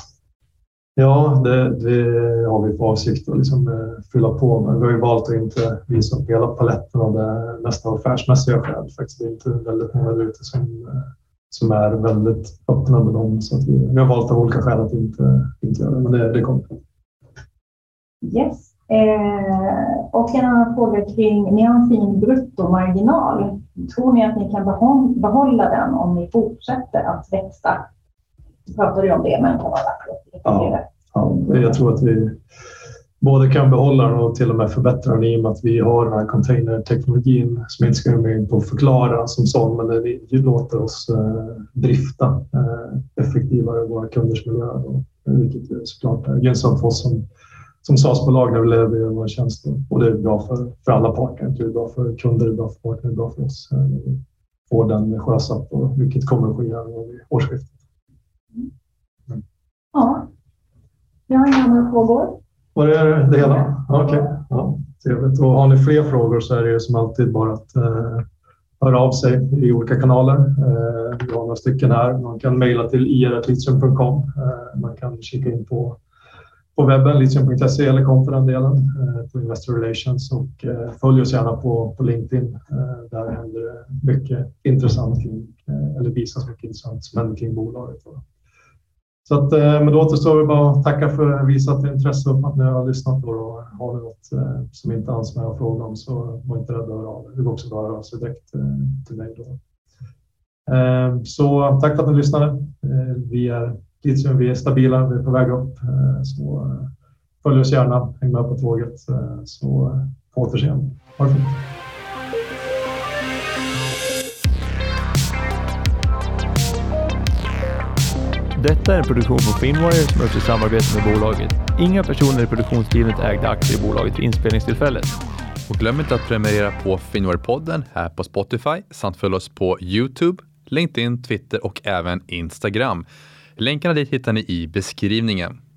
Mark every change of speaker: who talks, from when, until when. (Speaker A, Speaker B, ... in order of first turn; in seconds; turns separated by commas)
Speaker A: 0.9-16.8, Speaker B: 18.2-27.9, Speaker B: 28.7-30.8, Speaker A: 30.4-32.4, Speaker A: 33.2-47.2, Speaker A: 47.8-57.8, Speaker B: 59.9-60.3, Speaker B: 61.3-62.4, Speaker A: 62.7-68.2, Speaker A: 68.8-76.0, Speaker A: 76.7-88.2, Speaker A: 89.2-99.6, Speaker A: 100.7-106.9, Speaker A: 107.4-111.6, Speaker C: 118.5-125.1, Speaker D: 125.7-133.1, Speaker D: 133.6-135.6